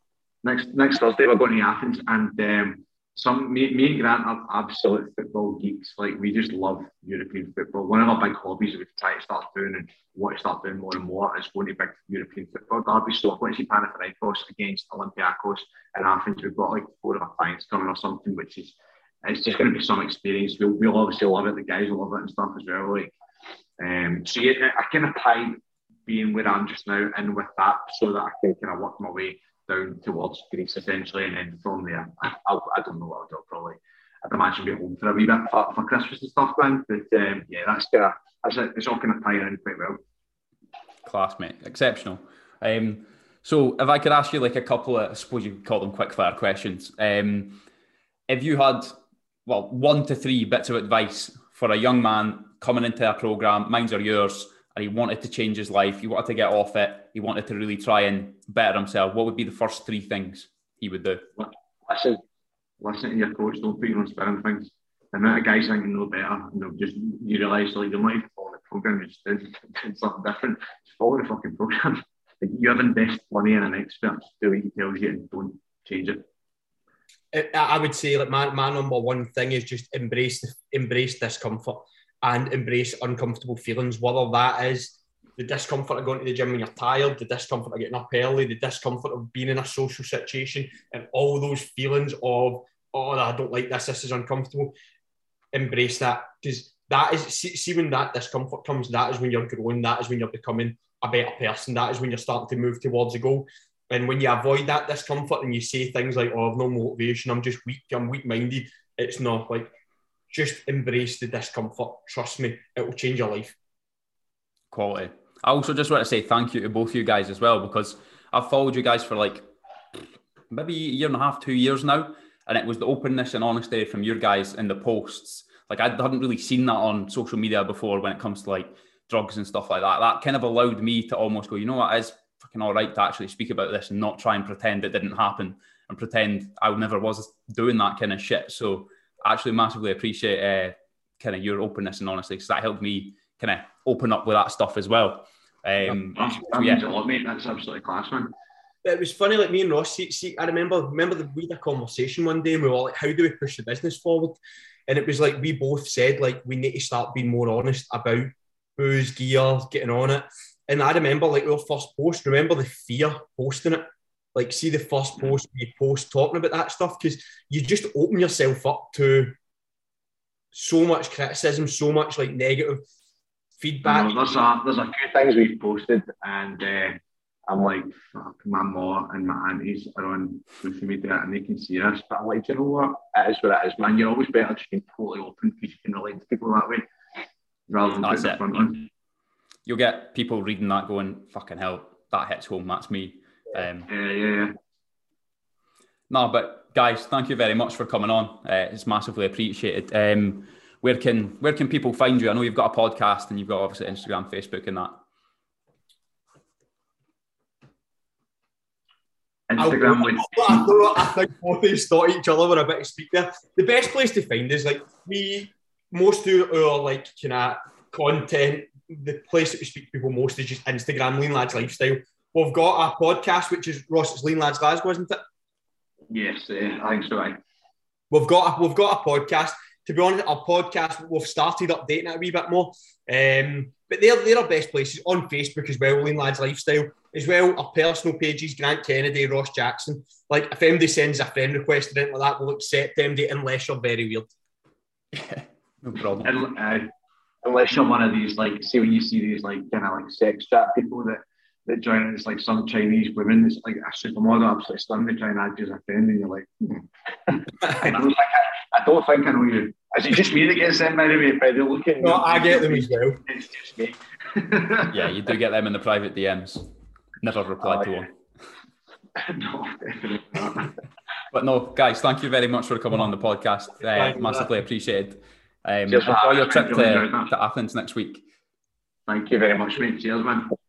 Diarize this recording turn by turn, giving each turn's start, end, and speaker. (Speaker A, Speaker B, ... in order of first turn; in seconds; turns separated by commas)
Speaker A: 0.4-23.1, Speaker A: 23.8-40.0, Speaker B: 41.0-47.6, Speaker B: 48.3-49.0, Speaker B: 49.5-61.3, Speaker A: 61.4-62.2, Speaker A: 62.8-76.2, Speaker C: 77.3-94.8, Speaker C: 95.5-109.7, Speaker C: 110.3-113.6, Speaker B: 114.7-119.5, Speaker B: 120.5-146.8, Speaker A: 145.8-148.3, Speaker C: 148.8-169.4, Speaker C: 170.5-172.8, Speaker C: 173.6-174.2, Speaker A: 173.8-186.9, Speaker A: 187.7-188.9, Speaker B: 188.0-188.5, Speaker B: 189.7-193.9, Speaker A: 193.9-194.5, Speaker B: 196.1-205.0, Speaker A: 209.5-210.7, Speaker C: 209.6-225.2, Speaker A: 226.1-227.4, Speaker C: 228.1-244.3, Speaker B: 245.1-246.3, Speaker A: 246.2-246.9, Speaker A: 247.4-264.9, Speaker C: 257.7-257.9, Speaker C: 262.0-263.2, Speaker B: 264.9-266.7, Speaker B: 267.2-268.1, Speaker A: 267.6-267.9, Speaker A: 269.2-270.7, Speaker B: 271.3-278.2, Speaker A: 275.9-277.3, Speaker A: 279.1-280.6